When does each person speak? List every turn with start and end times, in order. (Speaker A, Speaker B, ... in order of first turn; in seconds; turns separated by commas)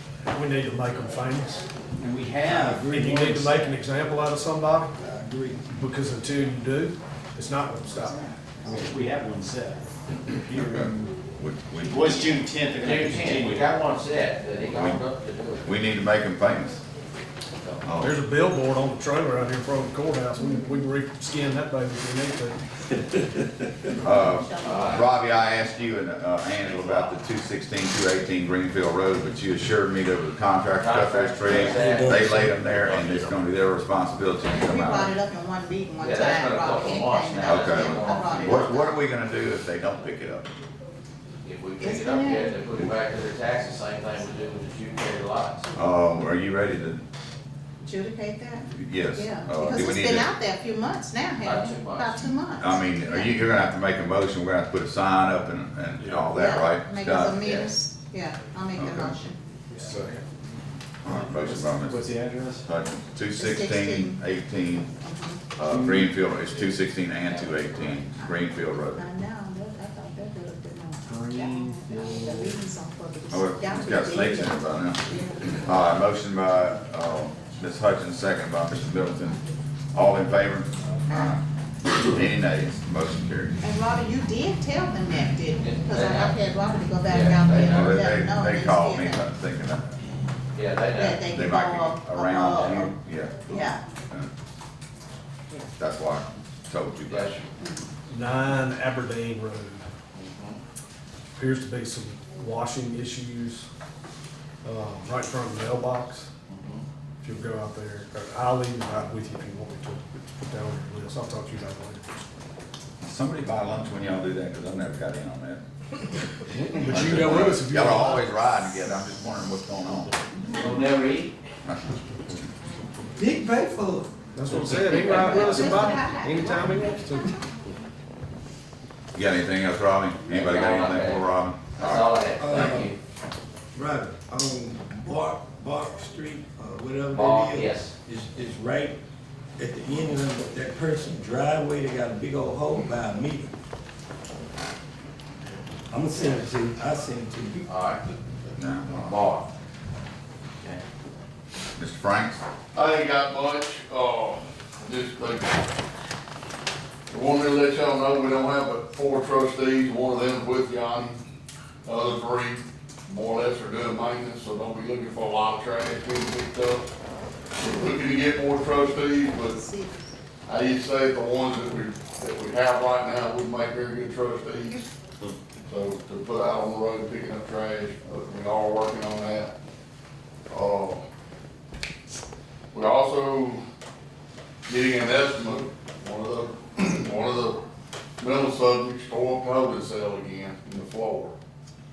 Speaker A: 0.3-1.6, Speaker B: 2.0-2.6, Speaker C: 2.4-3.5, Speaker A: 2.6-4.9, Speaker C: 5.0-5.7, Speaker A: 5.7-8.8, Speaker B: 8.7-9.9, Speaker D: 10.5-12.2, Speaker B: 11.9-13.6, Speaker E: 12.8-15.7, Speaker D: 14.7-15.0, Speaker D: 15.6-16.8, Speaker D: 17.8-18.2, Speaker A: 18.0-22.6, Speaker D: 24.0-35.1, Speaker F: 24.0-25.1, Speaker E: 24.6-25.0, Speaker E: 26.7-27.1, Speaker E: 30.7-32.4, Speaker C: 31.5-32.9, Speaker F: 34.5-38.9, Speaker E: 36.0-38.7, Speaker D: 37.4-40.5, Speaker E: 41.4-45.7, Speaker F: 41.8-42.6, Speaker D: 45.7-47.0, Speaker F: 47.8-53.4, Speaker D: 48.7-50.3, Speaker E: 51.4-52.3, Speaker D: 52.6-57.5, Speaker F: 56.4-59.4, Speaker E: 57.4-57.7, Speaker D: 58.7-59.2, Speaker A: 59.8-60.1, Speaker D: 61.0-62.0, Speaker B: 61.1-62.6, Speaker A: 61.9-62.6, Speaker D: 62.6-65.0, Speaker F: 63.4-64.2, Speaker F: 65.0-65.5, Speaker D: 65.5-69.0, Speaker E: 67.2-68.0, Speaker F: 69.0-75.8, Speaker B: 71.2-72.1, Speaker A: 72.2-72.5, Speaker D: 73.3-79.4, Speaker D: 79.9-83.6, Speaker F: 81.1-81.3, Speaker F: 83.6-89.2, Speaker E: 85.6-86.4, Speaker E: 87.0-88.0, Speaker D: 87.7-89.8, Speaker E: 90.5-91.3, Speaker F: 90.9-92.9, Speaker D: 91.2-94.3, Speaker F: 93.5-93.8, Speaker D: 95.8-97.4, Speaker E: 97.1-97.5, Speaker F: 97.6-97.9, Speaker A: 98.1-99.9, Speaker E: 100.1-100.6, Speaker A: 101.3-103.7, Speaker A: 104.6-106.3, Speaker E: 106.5-106.8, Speaker A: 107.2-112.0, Speaker D: 113.0-115.6, Speaker A: 116.6-118.3, Speaker D: 116.8-120.1, Speaker E: 120.5-121.4, Speaker D: 121.7-122.0, Speaker C: 123.2-124.1, Speaker A: 124.3-127.3, Speaker E: 124.5-125.8, Speaker F: 124.7-127.3, Speaker D: 129.2-132.2, Speaker E: 130.3-131.2, Speaker E: 131.8-133.0, Speaker C: 132.4-132.9, Speaker C: 133.7-139.0, Speaker E: 137.1-137.9, Speaker C: 139.6-143.5, Speaker C: 145.9-147.7, Speaker E: 147.7-148.0, Speaker D: 148.6-149.2, Speaker E: 148.9-149.5, Speaker D: 151.8-152.4, Speaker G: 152.7-155.5, Speaker G: 157.1-161.2, Speaker G: 161.8-166.9, Speaker G: 167.6-169.5, Speaker F: 169.3-170.0, Speaker G: 170.5-174.7, Speaker G: 175.7-179.5, Speaker G: 180.5-181.0, Speaker G: 182.7-183.6, Speaker G: 184.7-187.6, Speaker G: 188.2-191.3